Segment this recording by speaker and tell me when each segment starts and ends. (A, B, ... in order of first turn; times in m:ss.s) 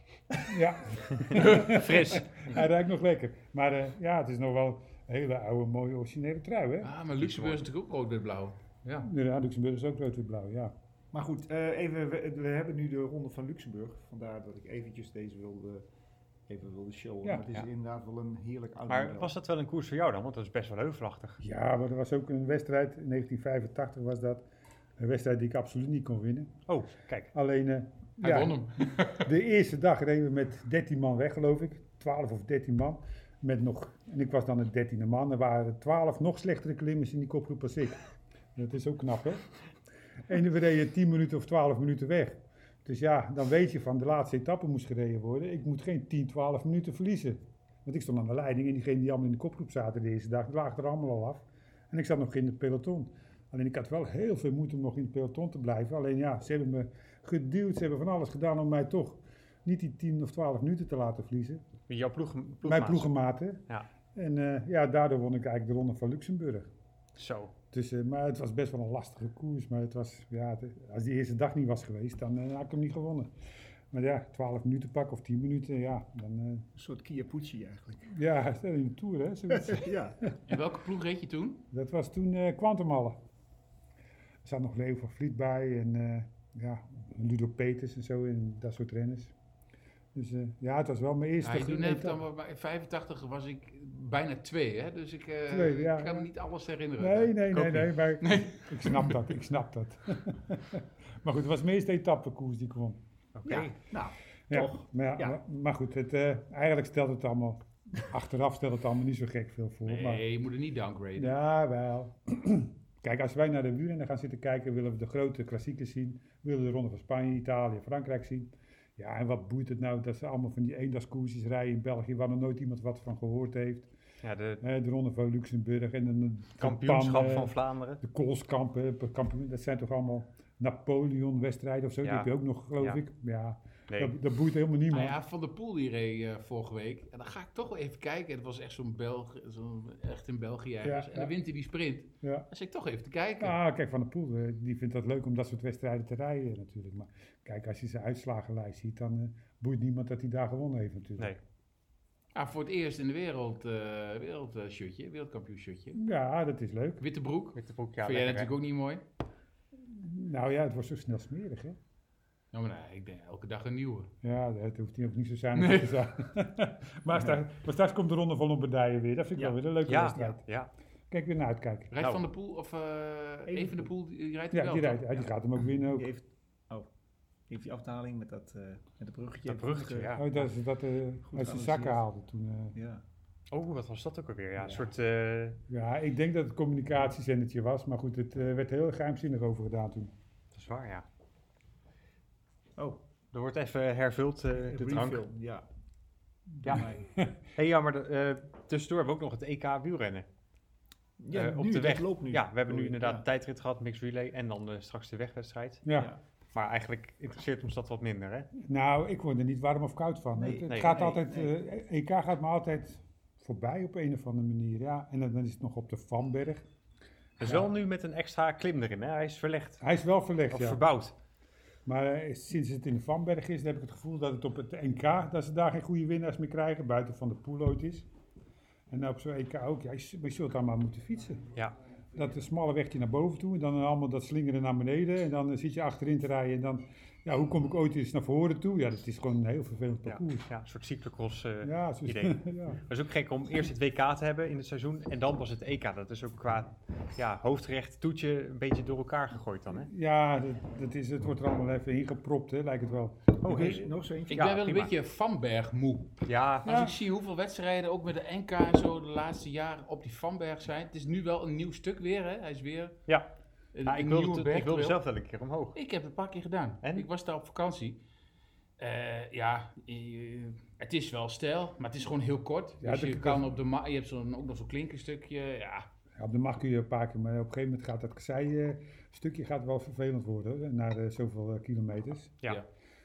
0:00.4-0:06.9 A
0:01.1-0:02.5 B
0:06.8-0:09.1 C
0:07.3-0:07.6 B
0:09.0-0:10.7 A
0:11.1-0:15.8 D
0:16.5-0:19.3 D
0:18.9-0:21.4 B
0:21.4-0:24.4 A
0:25.0-0:26.5 A
0:26.7-0:27.3 B
0:27.3-0:38.0 A
0:28.2-0:29.3 C
0:38.5-0:39.4 A
0:40.3-1:01.6 A
1:01.9-1:03.1 B
1:02.6-1:06.7 A
1:07.2-1:07.5 B
1:07.7-1:13.3 A
1:13.9-1:16.7 A
1:16.7-1:18.1 D
1:18.1-1:20.0 A
1:19.5-1:20.3 D
1:20.5-1:21.6 C
1:21.7-1:23.2 A
1:24.4-1:29.3 A
1:30.1-1:32.2 A
1:31.4-1:37.4 C
1:35.5-1:36.3 A
1:37.0-1:43.0 A
1:37.5-1:37.9 B
1:38.2-1:39.2 C
1:43.3-1:43.8 B
1:43.4-1:45.4 D
1:44.5-1:50.2 A
1:49.8-1:51.3 C
1:51.2-2:03.9 A
2:04.2-2:04.6 B
2:04.6-2:15.2 A
2:06.6-2:08.0 B
2:12.0-2:12.3 B
2:13.9-2:14.1 B
2:14.9-2:23.5 C
2:20.8-2:21.3 A
2:23.4-2:31.4 A
2:32.3-2:36.0 C
2:35.9-2:37.0 A
2:37.0-2:39.0 C
2:37.5-2:38.5 B
2:39.8-2:41.8 A
2:42.5-2:44.1 C
2:44.2-2:50.4 A
2:45.5-2:46.0 C
2:49.8-2:50.7 B
2:51.1-2:51.9 A
2:51.9-2:55.3 C
2:53.5-2:53.9 D
2:54.5-2:56.1 A
2:55.8-2:56.9 D
2:57.5-3:00.2 D
2:59.4-3:00.4 B
3:00.1-3:02.8 A
3:01.2-3:02.0 D
3:02.7-3:03.0 D
3:03.5-3:05.6 B
3:05.7-3:10.1 A
3:10.5-3:11.0 B
3:13.3-3:15.2 B
3:14.6-3:15.6 D
3:16.5-3:17.0 D
3:16.6-3:16.9 B
3:17.0-3:17.4 A
3:17.5-3:20.2 B
3:21.2-3:23.2 D
3:21.3-3:25.8 B
3:25.8-3:26.1 A
3:26.5-3:28.5 B
3:28.6-3:36.6 A
3:30.3-3:31.5 D
3:30.7-3:31.1 B
3:37.4-3:39.8 B
3:39.8-3:40.8 A
3:40.5-3:41.1 B
3:41.8-3:48.1 A
3:48.9-3:51.5 A
3:52.1-4:00.5 A
4:00.0-4:09.9 B
4:01.6-4:02.8 A
4:09.9-4:13.8 A
4:13.4-4:14.5 D
4:13.4-4:14.9 B
4:14.3-4:23.0 C
4:16.2-4:16.8 B
4:16.6-4:16.9 A
4:23.7-4:25.0 C
4:23.8-4:25.8 B
4:25.7-4:28.0 C
4:26.8-4:27.1 B
4:28.8-4:35.9 C
4:32.8-4:33.6 A
4:36.2-4:42.4 A